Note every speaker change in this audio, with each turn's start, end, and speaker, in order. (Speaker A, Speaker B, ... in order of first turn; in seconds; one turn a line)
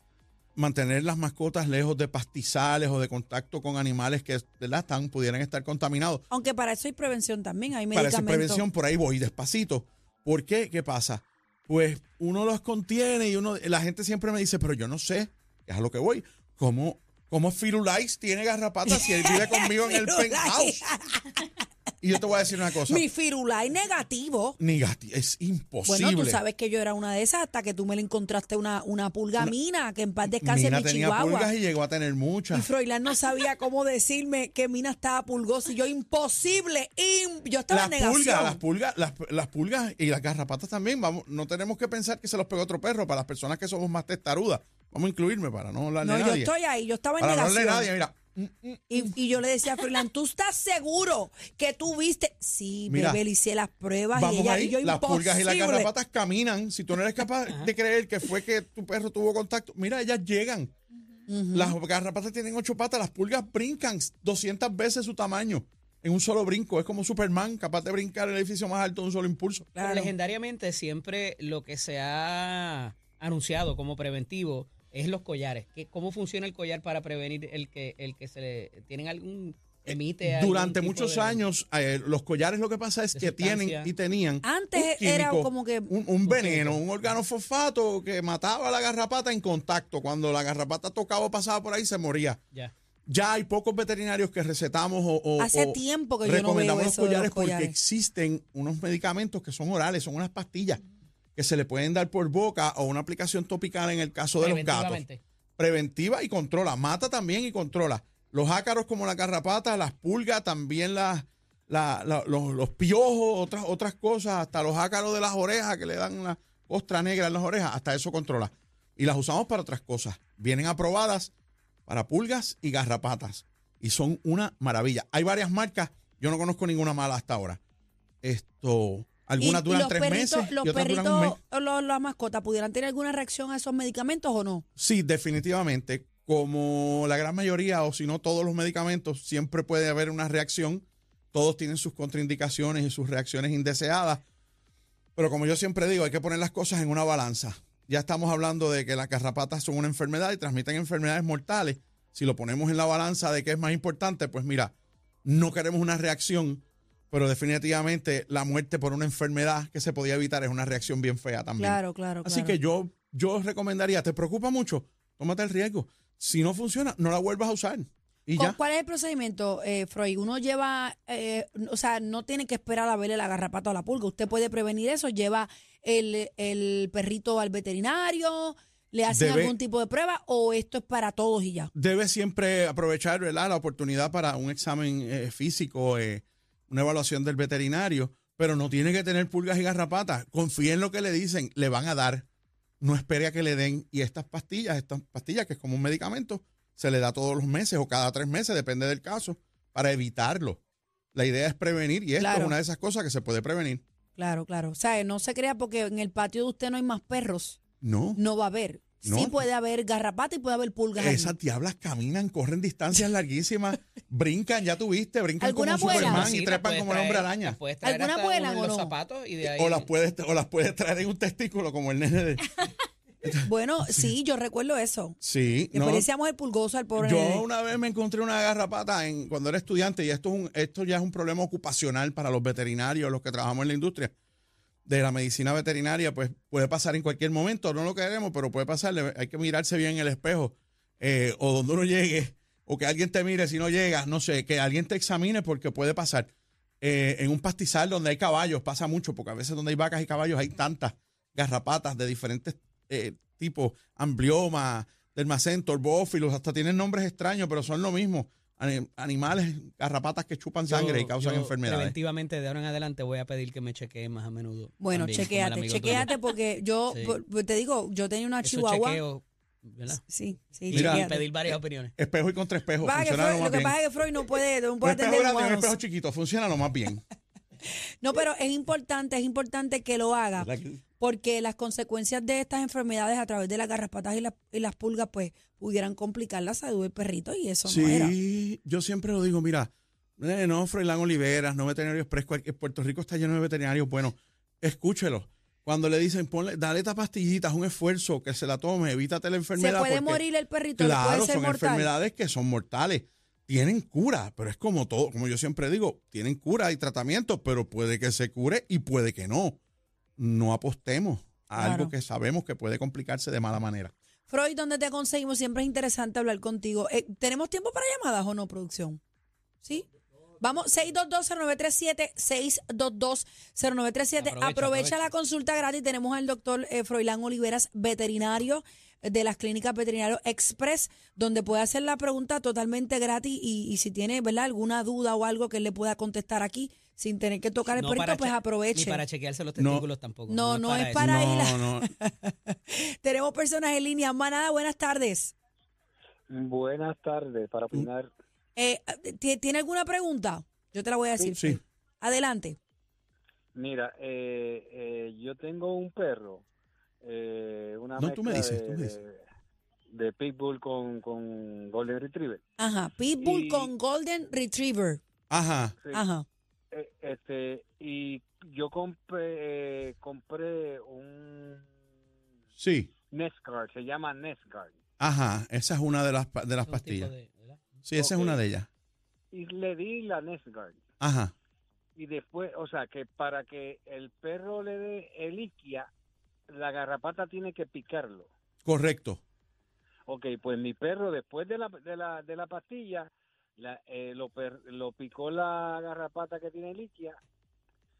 Speaker A: 0.6-6.2
Speaker B: 6.3-8.7
Speaker A: 7.9-20.9
Speaker B: 18.9-21.5
Speaker A: 22.0-23.1
Speaker B: 22.8-24.6
Speaker A: 24.6-26.4
Speaker B: 25.9-31.5
Speaker A: 30.3-32.7
Speaker B: 32.5-38.6
Speaker A: 37.7-46.5
Speaker B: 46.0-47.9
Speaker A: 47.2-49.1
Speaker B: 48.9-55.9
Speaker A: 52.9-53.2
Speaker A: 54.1-60.7
Speaker B: 61.3-61.8
Speaker A: 61.5-69.7
Speaker B: 69.8-70.1
Speaker C: 69.8-81.4
Speaker A: 79.9-92.4
Speaker C: 83.1-83.9
Speaker B: 84.4-85.9
Speaker C: 86.2-87.0
Speaker A: 93.1-100.8
Speaker B: 95.4-97.8
Speaker A: 101.4-105.0
Speaker C: 104.4-105.2
Speaker A: 105.6-121.3
Speaker A: 121.9-127.6
Speaker A: 128.2-131.4
Speaker B: 129.4-134.6
Speaker A: 134.8-144.2
Speaker A: 145.2-154.7
Speaker A: 155.2-168.6
Speaker B: 161.6-162.6
Speaker B: 168.3-181.7
Speaker A: 179.1-179.6
Speaker A: 181.7-192.2
Speaker A: 192.8-200.6
Speaker A: 201.1-203.8
Speaker B: 202.2-202.5
Speaker B: 204.2-207.6
Speaker A: 207.8-208.2
Speaker B: 208.1-211.4
Speaker A: 209.0-209.4
Speaker A: 211.0-217.6
Speaker B: 215.4-216.3
Speaker C: 215.8-219.9
Speaker B: 217.8-218.9
Speaker A: 219.4-222.7
Speaker A: 223.2-224.1
Speaker B: 223.4-225.2
Speaker A: 225.2-226.1
Speaker B: 225.7-227.4
Speaker A: 227.0-234.1
Speaker A: 234.9-262.0
Speaker C: 260.6-266.2
Speaker B: 264.8-269.0
Speaker C: 266.9-267.2
Speaker C: 268.4-270.0
Speaker B: 270.1-271.2
Speaker C: 270.7-271.9
Speaker A: 270.7-273.8
Speaker B: 272.8-275.7
Speaker A: 274.8-277.0
Speaker B: 278.0-288.1
Speaker A: 280.4-280.8
Speaker A: 287.6-300.2
Speaker B: 299.5-301.9
Speaker A: 300.8-309.6
Speaker A: 310.2-313.9
Speaker B: 311.6-311.9
Speaker B: 314.3-319.0
Speaker B: 320.4-339.0
Speaker C: 324.2-325.1
Speaker C: 337.7-341.2
Speaker A: 339.6-339.9
Speaker B: 340.3-345.3
Speaker A: 341.0-341.9
Speaker D: 346.3-348.1
Speaker B: 348.6-352.6
Speaker A: 351.4-351.6
Speaker D: 353.5-356.4
Speaker D: 357.0-359.2
Speaker A: 358.0-359.0
Speaker D: 359.9-362.4
Speaker B: 362.6-365.0
Speaker D: 363.2-363.7
Speaker A: 365.3-365.8
Speaker B: 365.9-366.2
Speaker D: 366.7-371.7
Speaker A: 372.6-372.9
Speaker D: 373.1-374.7
Speaker A: 375.0-377.1
Speaker C: 376.6-377.6
Speaker A: 377.9-378.7
Speaker D: 378.0-378.4
Speaker D: 379.3-380.8
Speaker A: 381.0-381.3
Speaker D: 382.0-385.9
Speaker D: 386.5-388.3
Speaker A: 388.6-389.2
Speaker D: 390.1-397.2